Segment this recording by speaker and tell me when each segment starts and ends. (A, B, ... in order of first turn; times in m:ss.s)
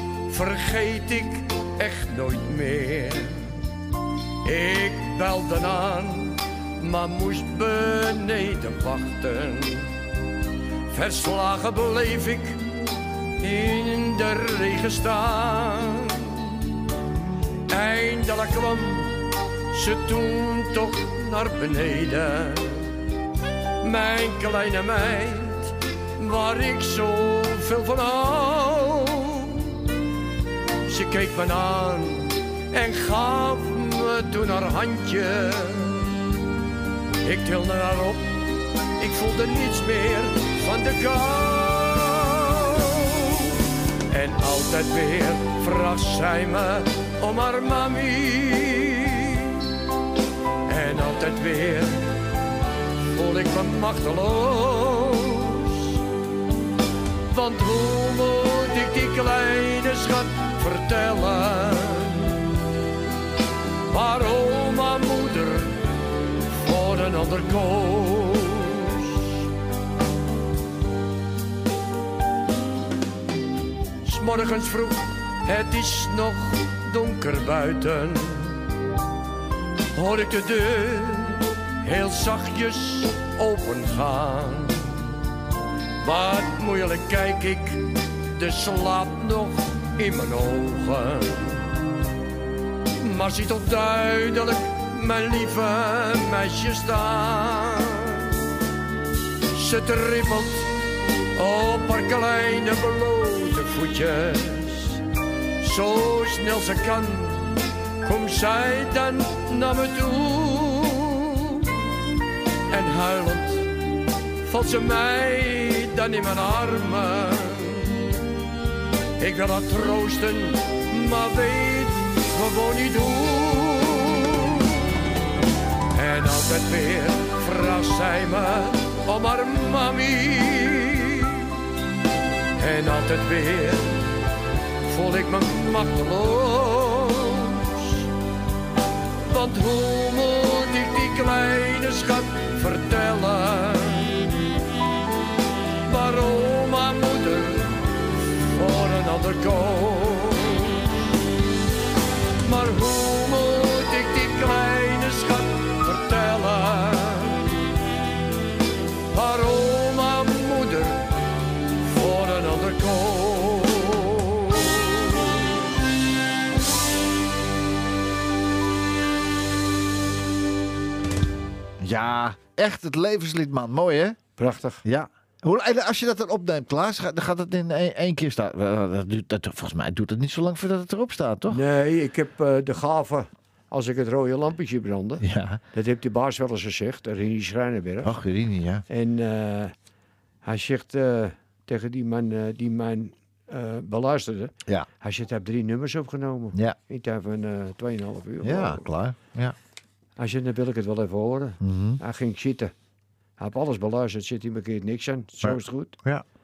0:00.3-0:03.6 A
0:04.4-0:09.9 A
0:10.9-0:12.6 A
0:13.4-0:16.6 A
0:17.7-0:22.9 A
0:23.8-0:29.8 A
0:30.8-0:36.1 A
0:37.2-0:38.4 A
0:39.0-0:43.5 A
0:44.1-0:49.6 A
0:50.7-0:52.1 A
0:53.1-0:56.0 A
0:57.3-1:02.4 A
1:03.9-1:05.8 A
1:06.5-1:09.4 A
1:14.0-1:18.6 A
1:19.9-1:25.1 A
1:26.0-1:31.7 A
1:33.0-1:38.3 A
1:39.5-1:40.7 A
1:41.4-1:45.0 A
1:45.6-1:51.7 A
1:52.7-1:53.7 A
1:54.4-1:58.0 A
1:59.2-2:04.8 A
2:05.9-2:11.5 A
2:12.6-2:14.1 A
2:14.8-2:18.1 A
2:19.2-2:24.4 A
2:25.9-2:30.9 A
2:32.4-2:37.5 A
2:39.1-2:41.0 A
2:41.8-2:45.4 A
2:51.8-2:54.2 B
2:54.4-2:54.8 C
2:54.8-3:01.6 B
3:01.5-3:08.1 C
3:05.2-3:05.6 B
3:08.0-3:08.8 B
3:08.9-3:09.7 C
3:10.4-3:18.8 C
3:18.4-3:19.6 B
3:20.2-3:22.7 C
3:21.6-3:22.0 B
3:23.4-3:26.0 C
3:25.4-3:26.2 B